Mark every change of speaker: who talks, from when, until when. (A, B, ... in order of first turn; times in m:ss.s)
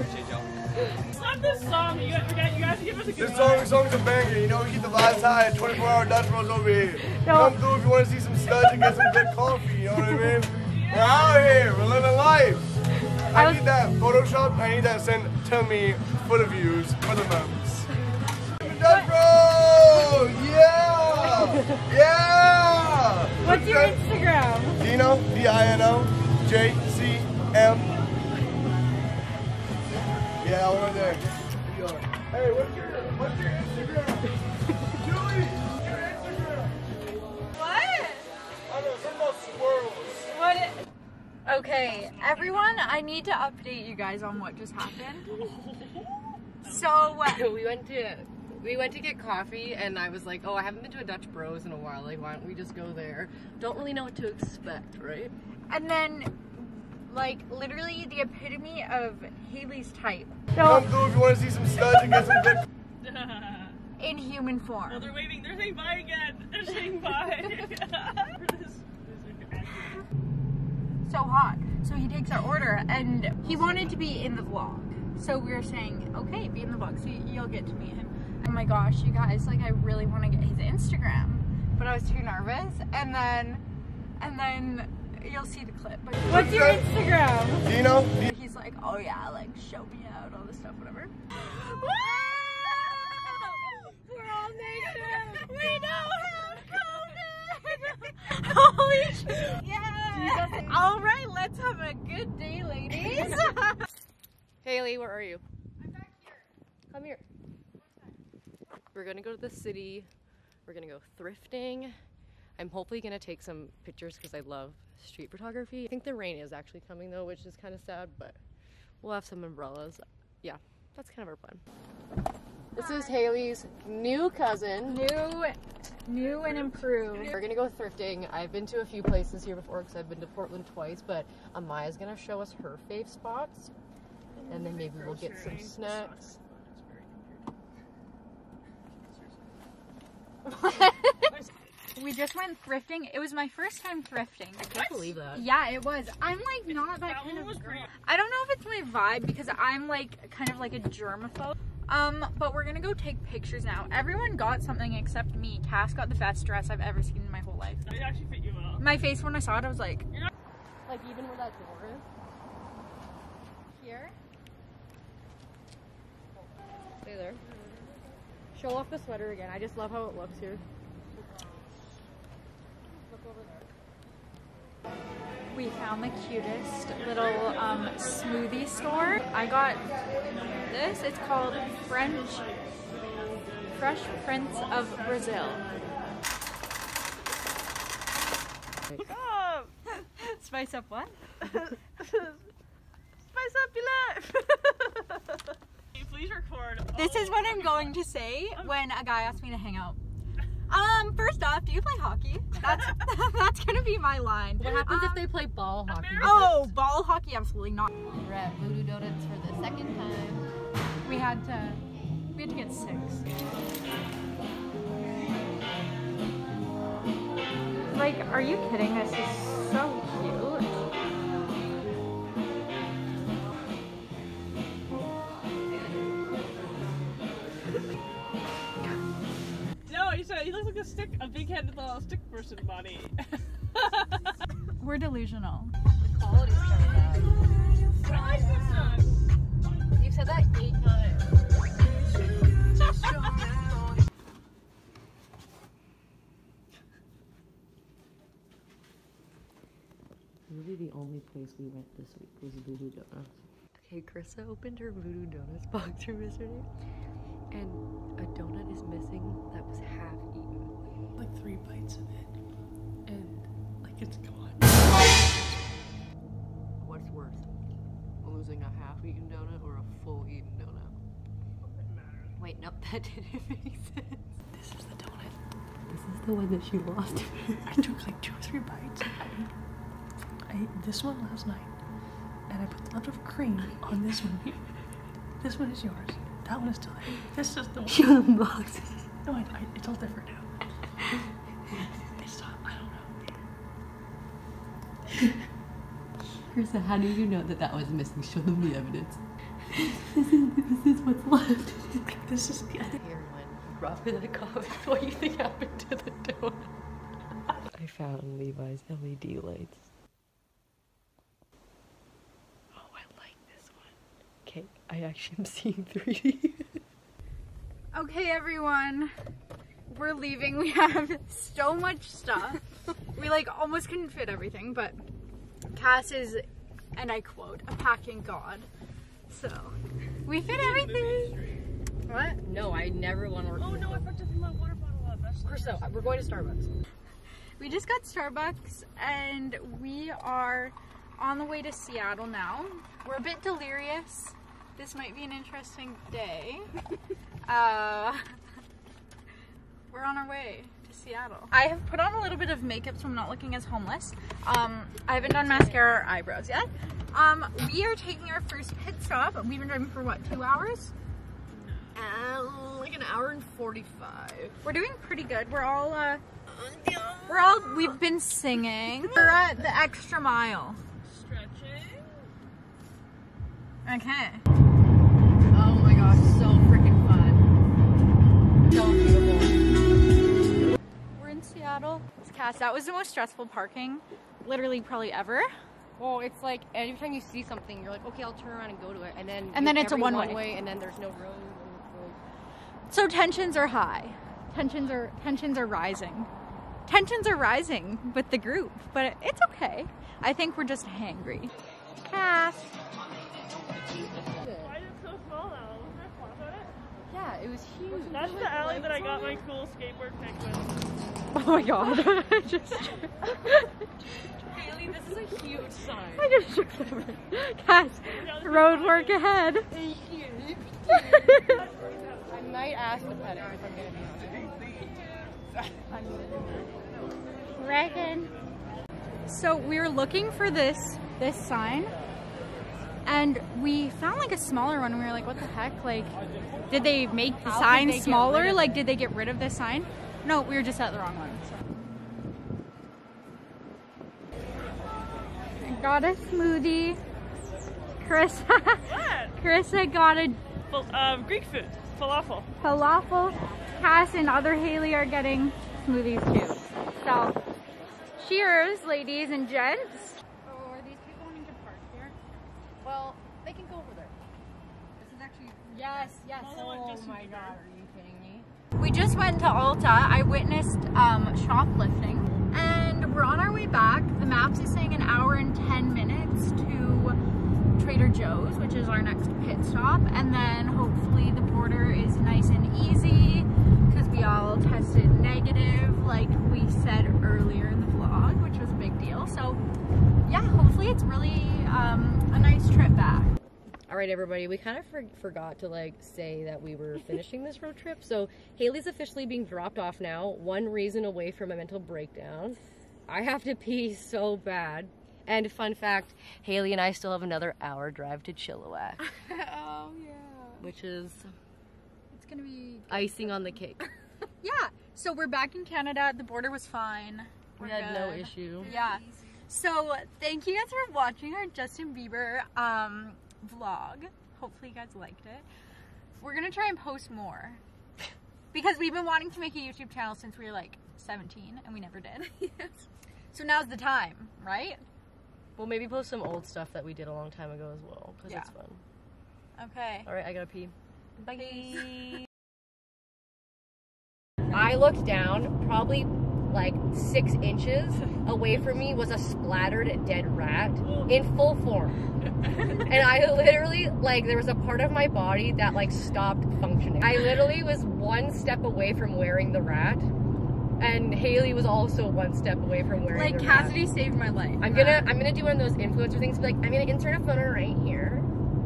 0:01.1-0:03.8 A
0:03.2-0:12.8 B
0:07.0-0:07.6 C
0:08.6-0:09.1 C
0:10.0-0:10.3 C
0:10.7-0:11.6 A
0:13.3-0:17.9 B
0:13.4-0:13.6 D
0:18.6-0:19.2 D
0:18.6-0:24.0 B
0:21.2-0:21.8 C
0:23.4-0:24.9 D
0:24.8-0:28.0 B
0:30.4-0:34.2 B
0:35.0-0:36.5 B
0:37.5-0:38.3 D
0:38.7-0:40.2 B
0:40.2-0:40.8 D
0:41.4-0:45.3 D
0:41.7-0:43.0 A
0:45.3-0:47.2 A
0:46.6-0:47.5 D
0:47.2-0:55.3 C
0:55.7-1:00.9 D
1:00.6-1:02.6 B
1:03.0-1:03.8 A
1:04.0-1:05.1 D
1:04.9-1:10.1 A
1:11.0-1:23.6 D
1:13.4-1:14.0 C
1:24.2-1:43.8 D
1:26.2-1:26.8 B
1:27.6-1:28.2 B
1:31.9-1:32.9 C
1:33.9-1:35.5 C
1:40.1-1:40.8 C
1:42.9-1:43.6 C
1:44.6-1:45.4 C
1:45.8-1:46.4 D
1:46.9-1:47.2 C
1:48.9-1:50.1 C
1:50.7-1:52.0 C
1:52.6-1:58.4 C
1:59.0-2:01.6 C
2:02.8-2:05.1 C
2:02.8-2:03.2 D
2:04.8-2:07.3 D
2:06.2-2:07.0 A
2:07.3-2:13.7 C
2:14.4-2:17.5 A
2:14.5-2:16.4 C
2:18.9-2:19.6 A
2:20.5-2:21.3 D
2:21.2-2:21.5 A
2:22.0-2:24.7 D
2:24.6-2:25.5 C
2:24.7-2:25.1 A
2:25.3-2:37.9 D
2:26.7-2:27.9 A
2:37.9-2:38.8 A
2:38.8-2:40.1 D
2:40.9-2:42.1 C
2:43.7-2:44.2 D
2:47.0-2:47.5 C
2:48.5-2:50.6 C
2:53.1-2:53.7 C
2:55.5-3:02.6 D
3:03.7-3:05.7 D
3:09.0-3:09.7 A
3:10.0-3:11.2 D
3:11.4-3:12.4 A
3:13.3-3:18.0 A
3:17.0-3:20.0 D
3:20.7-3:25.3 D
3:24.6-3:26.7 C
3:25.9-3:26.7 A
3:26.2-3:27.9 D
3:28.2-3:30.5 C
3:31.0-3:31.8 D
3:32.3-3:33.3 D
3:37.9-3:40.8 D
3:49.9-3:54.2 A
3:54.8-3:55.8 D
3:56.0-3:57.4 C
3:58.0-3:59.2 A
4:00.0-4:01.4 C
4:02.8-4:03.8 C
4:10.5-4:16.7 C
4:17.5-4:20.8 C
4:21.2-4:25.3 E
4:26.8-4:27.5 C
4:28.2-4:31.0 C
4:31.6-4:32.4 A
4:32.4-4:34.3 C
4:34.5-4:35.4 E
4:35.9-4:37.7 C
4:37.6-4:39.6 E
4:40.5-4:48.1 E
4:47.9-4:49.1 C
4:49.2-4:51.2 E
4:51.7-4:53.4 E
4:56.5-4:59.2 C
5:00.4-5:02.2 C
5:02.2-5:03.0 E
5:02.9-5:06.7 C
5:07.7-5:09.9 C
5:12.7-5:13.9 C
5:14.4-5:16.8 C
5:17.9-5:19.1 D
5:19.9-5:25.0 D
5:25.7-5:26.4 D
5:27.0-5:28.7 D
5:29.3-5:31.4 D
5:30.4-5:31.6 A
5:32.1-5:34.2 C
5:33.6-5:36.2 A
5:35.4-5:36.7 C
5:37.6-5:46.7 D
5:47.5-5:48.2 D
5:49.9-6:00.9 D
5:55.2-5:55.8 C
6:01.5-6:01.9 A
6:02.0-6:04.6 C
6:04.6-6:06.2 D
6:06.5-6:08.0 C
6:07.3-6:10.8 D
6:09.0-6:09.4 C
6:11.0-6:12.3 A
6:13.8-6:14.4 D
6:15.5-6:17.5 C
6:18.7-6:19.6 C
6:21.2-6:25.5 D
6:26.0-6:32.2 C
6:29.5-6:30.6 D
6:32.9-6:36.3 D
6:36.9-6:41.5 D
6:42.1-6:42.8 D
6:44.2-6:44.8 C
6:44.4-6:46.8 A
6:47.1-6:49.4 C
6:48.1-6:50.8 A
6:51.3-6:53.7 D
6:54.4-6:56.3 C
6:56.2-6:59.7 D
6:58.2-6:59.2 A
6:59.7-7:01.4 C
7:00.9-7:01.7 D
7:02.3-7:04.6 C
7:05.9-7:06.6 D
7:07.6-7:08.3 D
7:09.3-7:12.0 D
7:13.0-7:16.2 D
7:16.7-7:21.7 D
7:17.4-7:18.8 C
7:25.6-7:27.0 D
7:28.0-7:30.4 D
7:28.9-7:29.4 A
7:30.7-7:32.5 A
7:32.6-7:37.4 D
7:38.2-7:42.2 D
7:42.8-7:44.2 C
7:45.0-7:45.3 C
7:45.0-7:46.6 D
7:46.0-7:48.5 C
7:46.3-7:47.6 A
7:48.8-7:57.2 D
7:57.8-8:09.6 D
8:10.3-8:13.3 D
8:13.9-8:29.0 C
8:29.1-8:30.7 D
8:30.6-8:31.3 C
8:32.1-8:33.6 D
8:32.9-8:33.9 C
8:34.4-8:45.4 D
8:37.6-8:38.7 C
8:46.2-8:47.6 D
8:48.5-8:52.7 D
8:53.3-8:54.8 D
8:55.6-8:58.8 C
8:58.3-8:58.5 D
8:59.6-9:00.1 D
9:00.1-9:02.0 C
9:01.3-9:02.1 D
9:04.5-9:12.0 C
9:12.7-9:20.1 C
9:20.8-9:23.9 C
9:23.1-9:25.1 D
9:24.6-9:28.3 C